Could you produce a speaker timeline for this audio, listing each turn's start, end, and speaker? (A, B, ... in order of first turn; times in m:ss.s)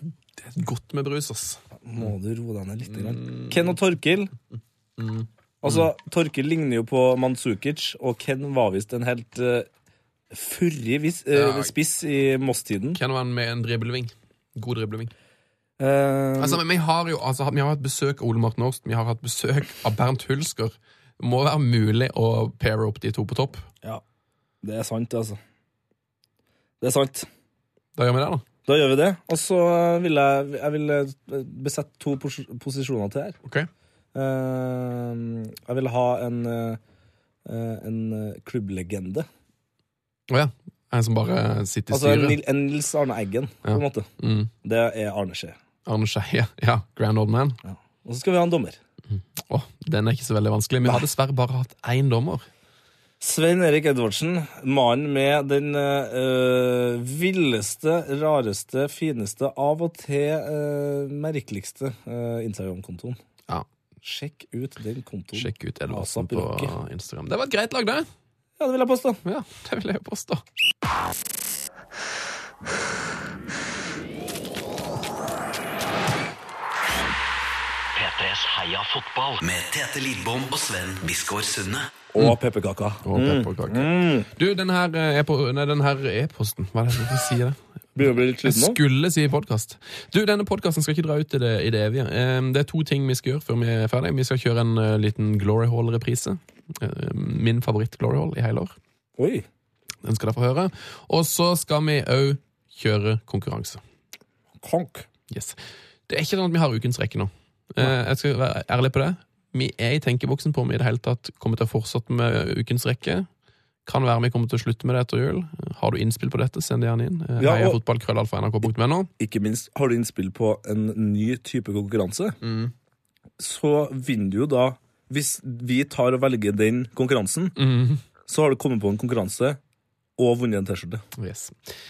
0:00.4-0:01.6 A
0:01.8-0:04.3 B
0:02.9-0:03.8 A
0:05.0-0:05.9 A
0:05.6-0:09.7 B
0:10.3-0:13.0 B
0:11.3-0:11.7 A
0:12.9-0:15.1 A
0:15.8-0:16.6 B
0:16.4-0:23.7 A
0:24.6-0:25.4 B
0:26.8-0:27.3 B
0:28.0-0:28.4 A
0:28.6-0:33.4 B
0:34.1-0:36.8 B
0:37.4-0:39.2 B
0:40.3-0:42.4 A
0:41.9-0:44.1 B
0:43.6-0:44.5 A
0:44.6-0:45.6 B
0:45.8-0:47.6 A
0:47.6-0:48.8 B
0:49.1-0:52.5 A
0:53.2-1:03.2 B
1:04.0-1:06.7 B
1:05.3-1:08.1 A
1:08.6-1:09.2 B
1:09.2-1:10.4 A
1:17.9-1:21.9 C
1:22.1-1:24.3 B
1:23.0-1:27.6 A
1:28.0-1:28.8 B
1:28.4-1:38.8 A
1:39.2-1:39.4 B
1:40.0-1:43.8 A
1:44.6-1:45.0 B
1:45.3-1:53.3 A
1:53.8-1:59.1 A
1:57.4-1:57.8 B
1:59.2-2:02.4 B
2:02.4-2:02.7 A
2:03.4-2:07.6 B
2:07.6-2:08.0 A
2:08.2-2:09.6 B
2:10.2-2:11.0 B
2:11.2-2:11.6 A